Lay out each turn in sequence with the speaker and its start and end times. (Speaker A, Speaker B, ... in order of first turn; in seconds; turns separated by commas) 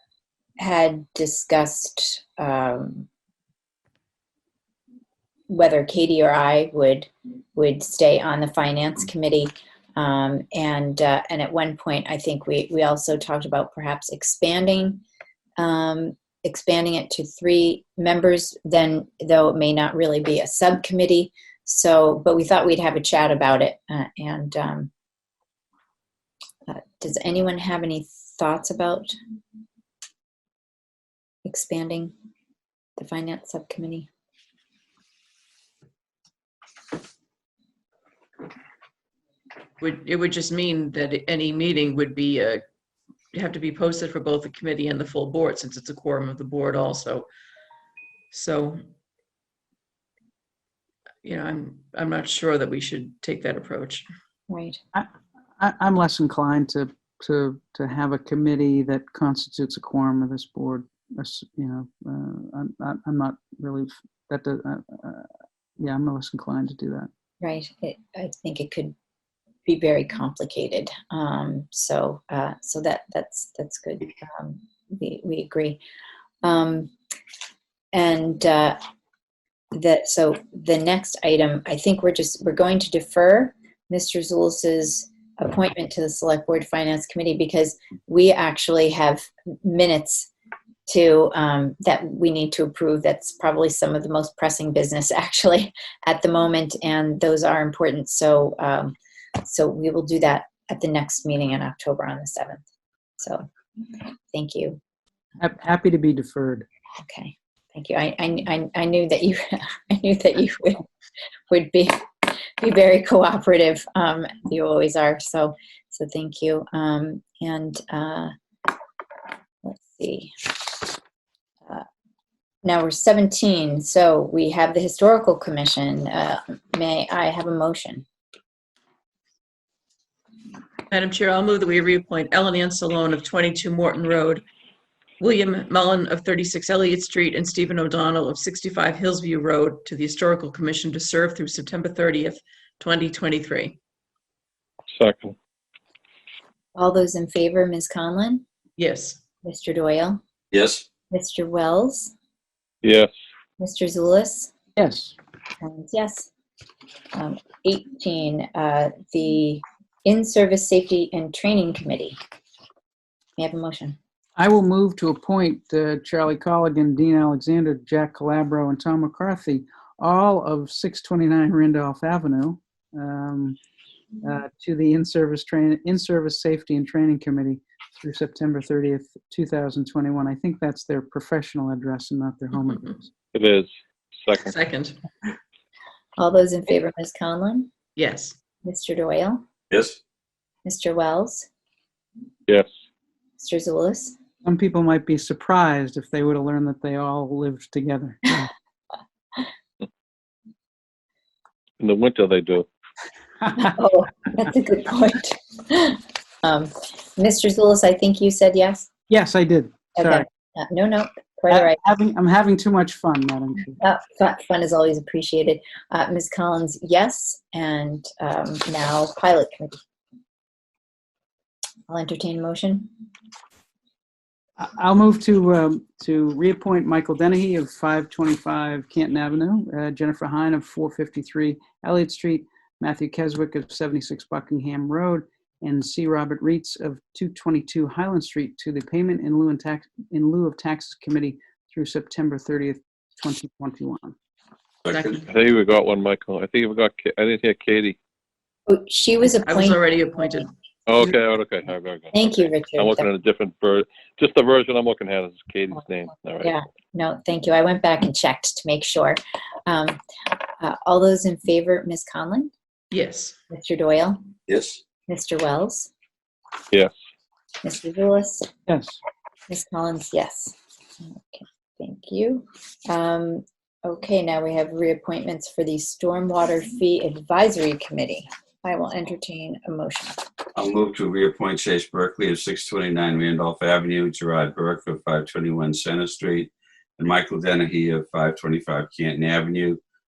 Speaker A: 0.6-3.1, Speaker A: 5.5-15.0, Speaker A: 15.6-24.9, Speaker A: 26.7-29.1, Speaker A: 31.4-32.1, Speaker A: 33.0-34.1, Speaker B: 39.8-42.6, Speaker B: 43.3-47.3, Speaker B: 48.3-48.8, Speaker B: 51.2-54.0, Speaker A: 54.5-54.8, Speaker C: 54.9-65.3, Speaker C: 65.8-67.1, Speaker A: 67.4-69.0, Speaker A: 69.7-75.8, Speaker A: 76.4-76.9, Speaker A: 77.9-78.8, Speaker A: 79.7-90.3, Speaker A: 90.9-102.6, Speaker A: 103.2-103.5, Speaker A: 104.3-104.8, Speaker C: 105.4-106.7, Speaker A: 107.0-110.9, Speaker A: 111.5-118.3, Speaker A: 119.6-120.9, Speaker A: 122.6-128.1, Speaker B: 130.9-134.4, Speaker B: 135.2-143.8, Speaker D: 144.9-145.3, Speaker A: 146.8-148.4, Speaker B: 148.8-149.2, Speaker A: 149.4-150.2, Speaker E: 150.5-150.9, Speaker A: 151.1-152.1, Speaker D: 152.8-153.1, Speaker A: 153.6-154.5, Speaker C: 154.8-155.2, Speaker A: 155.6-156.3, Speaker A: 157.1-162.2, Speaker A: 163.4-164.0, Speaker C: 164.4-173.6, Speaker C: 174.2-183.1, Speaker B: 182.6-183.0, Speaker D: 183.3-183.7, Speaker D: 184.2-184.5, Speaker B: 184.3-185.0, Speaker A: 186.2-187.7, Speaker B: 188.0-188.4, Speaker A: 188.6-189.4, Speaker E: 189.7-190.0, Speaker A: 190.7-191.5, Speaker A: 193.4-194.2, Speaker C: 194.4-198.5, Speaker D: 201.8-202.7, Speaker C: 203.4-203.7, Speaker A: 203.6-208.9, Speaker C: 209.1-210.3, Speaker A: 210.0-211.8, Speaker C: 211.5-213.8, Speaker A: 213.8-219.8, Speaker A: 221.9-222.9, Speaker C: 224.6-244.2, Speaker B: 244.9-245.3, Speaker D: 245.2-248.0, Speaker A: 248.7-249.8, Speaker B: 249.3-250.5, Speaker D: 250.9-256.5, Speaker A: 252.1-253.1, Speaker A: 256.4-260.0, Speaker A: 260.6-262.5, Speaker B: 262.9-263.4, Speaker A: 263.5-264.2, Speaker E: 264.5-264.8, Speaker A: 265.1-265.9, Speaker A: 267.6-268.5, Speaker C: 268.7-269.0, Speaker A: 269.5-280.2, Speaker E: 280.6-289.8